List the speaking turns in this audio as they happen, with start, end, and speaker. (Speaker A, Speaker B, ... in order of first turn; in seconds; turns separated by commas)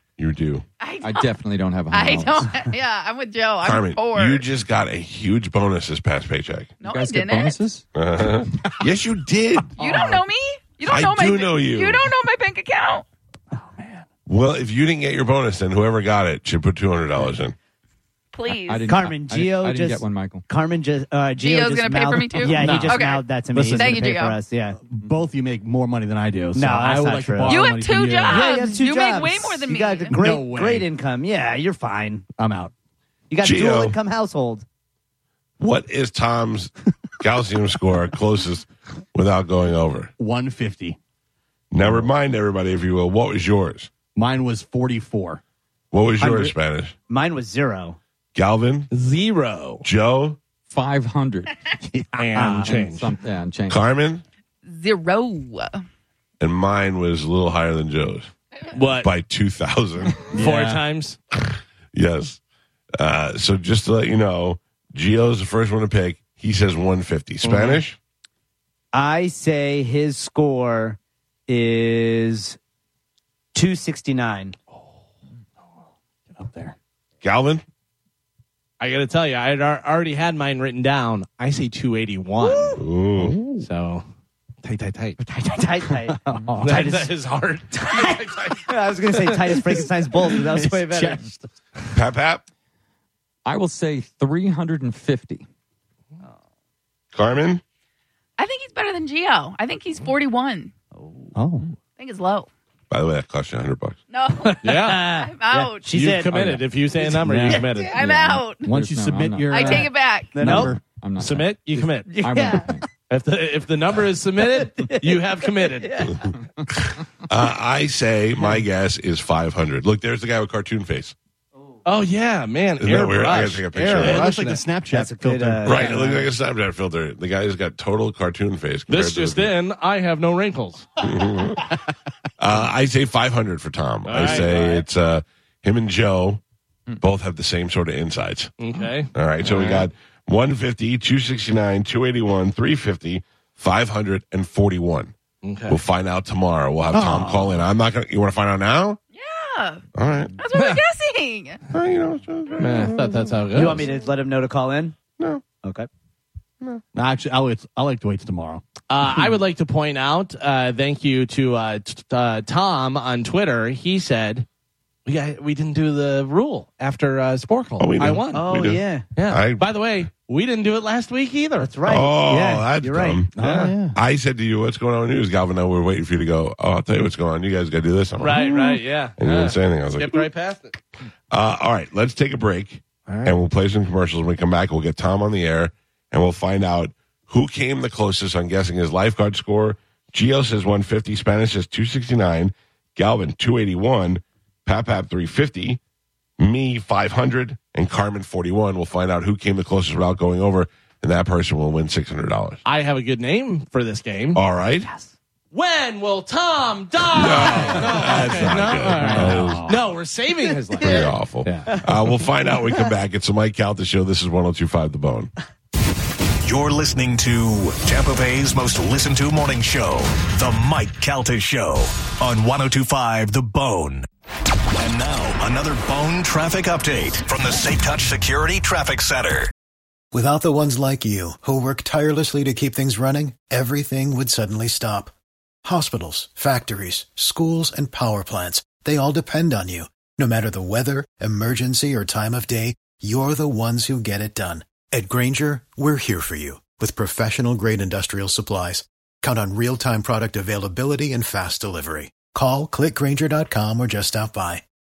Speaker A: 0.2-0.6, Speaker B: 0.8-1.4, Speaker C: 1.0-2.5, Speaker B: 1.9-4.5, Speaker A: 3.6-6.7, Speaker B: 6.8-7.6, Speaker C: 6.8-7.8, Speaker A: 7.9-9.8, Speaker B: 9.8-13.1, Speaker D: 9.8-10.2, Speaker A: 10.8-12.1, Speaker E: 13.7-14.0, Speaker A: 14.3-17.6, Speaker B: 18.3-18.9, Speaker C: 18.7-20.4, Speaker D: 18.9-24.8, Speaker B: 21.4-24.4, Speaker E: 22.4-24.1, Speaker E: 24.9-28.6, Speaker D: 26.5-27.6, Speaker B: 27.4-30.2, Speaker D: 28.3-32.3, Speaker E: 30.2-30.9, Speaker E: 32.4-32.7, Speaker D: 33.3-34.6, Speaker A: 33.4-34.0, Speaker A: 35.6-40.1, Speaker E: 40.2-41.0, Speaker A: 41.7-43.9, Speaker E: 44.1-45.4, Speaker A: 45.9-46.9, Speaker D: 46.2-46.5, Speaker D: 47.1-48.0, Speaker A: 48.3-48.9, Speaker F: 48.9-49.8, Speaker A: 49.8-50.4, Speaker C: 50.7-51.5, Speaker E: 51.9-52.6, Speaker F: 52.1-53.1, Speaker D: 52.3-52.8, Speaker C: 52.6-53.8, Speaker A: 53.7-54.2, Speaker B: 54.6-55.8, Speaker A: 56.4-58.3, Speaker F: 58.7-59.1, Speaker A: 59.0-60.3, Speaker E: 60.3-60.8, Speaker F: 60.3-61.2, Speaker A: 61.5-62.4, Speaker A: 63.0-68.0, Speaker F: 67.4-67.8, Speaker D: 68.9-72.6, Speaker D: 73.5-74.5, Speaker E: 76.3-76.7, Speaker A: 77.2-77.6, Speaker F: 78.8-82.8, Speaker D: 82.4-82.8, Speaker A: 82.8-83.4, Speaker F: 83.6-84.0, Speaker F: 84.6-85.2, Speaker D: 85.2-87.1, Speaker E: 86.0-86.7, Speaker F: 86.6-88.7, Speaker D: 87.7-91.2, Speaker E: 90.2-91.5, Speaker A: 91.9-92.4, Speaker C: 93.5-95.5, Speaker A: 97.1-97.6, Speaker B: 98.4-100.7, Speaker D: 101.0-101.3, Speaker E: 101.3-101.7, Speaker B: 101.9-102.5, Speaker A: 102.9-104.0, Speaker B: 104.1-106.0, Speaker D: 104.4-107.9, Speaker F: 104.6-105.1, Speaker F: 105.9-108.5, Speaker E: 107.2-107.6, Speaker B: 107.7-108.7, Speaker E: 108.6-110.8, Speaker C: 108.7-109.7, Speaker B: 109.5-110.5, Speaker D: 109.6-110.8, Speaker C: 110.6-112.9, Speaker F: 111.2-112.1, Speaker D: 112.1-112.8, Speaker F: 113.1-116.2, Speaker D: 114.5-116.2, Speaker A: 116.8-121.1, Speaker F: 121.8-124.6, Speaker A: 122.8-124.3, Speaker E: 123.8-126.1, Speaker D: 124.9-126.2, Speaker A: 125.6-129.5, Speaker F: 128.9-130.9, Speaker A: 131.0-131.7, Speaker A: 132.4-136.4, Speaker F: 134.0-134.8, Speaker D: 134.2-134.8, Speaker A: 137.0-138.5, Speaker F: 138.6-139.9, Speaker A: 139.1-145.1, Speaker F: 145.4-145.8, Speaker A: 145.7-149.0, Speaker E: 146.9-147.6, Speaker B: 149.1-149.8, Speaker A: 149.9-150.4, Speaker B: 150.4-151.6, Speaker F: 150.5-150.8, Speaker A: 151.7-153.7, Speaker F: 152.6-153.9, Speaker D: 153.5-154.9, Speaker A: 155.2-155.4, Speaker D: 155.6-155.9, Speaker E: 156.9-158.6, Speaker F: 158.9-164.4, Speaker F: 165.1-168.4, Speaker A: 167.8-169.7, Speaker D: 168.3-169.1, Speaker F: 169.2-171.7, Speaker D: 171.6-173.2, Speaker A: 171.8-173.3, Speaker E: 173.3-174.0, Speaker F: 173.4-173.7, Speaker A: 173.9-178.7, Speaker F: 178.2-180.8, Speaker A: 179.2-180.3, Speaker A: 181.3-195.8, Speaker F: 183.1-183.4, Speaker A: 196.4-202.6, Speaker F: 202.6-204.4, Speaker A: 204.3-204.9, Speaker F: 205.5-211.7, Speaker A: 207.1-209.8, Speaker E: 209.0-209.8, Speaker D: 210.4-211.1, Speaker A: 210.8-215.3, Speaker D: 212.5-212.9, Speaker G: 216.4-224.0, Speaker G: 224.8-229.5, Speaker H: 230.1-235.1, Speaker H: 235.6-254.6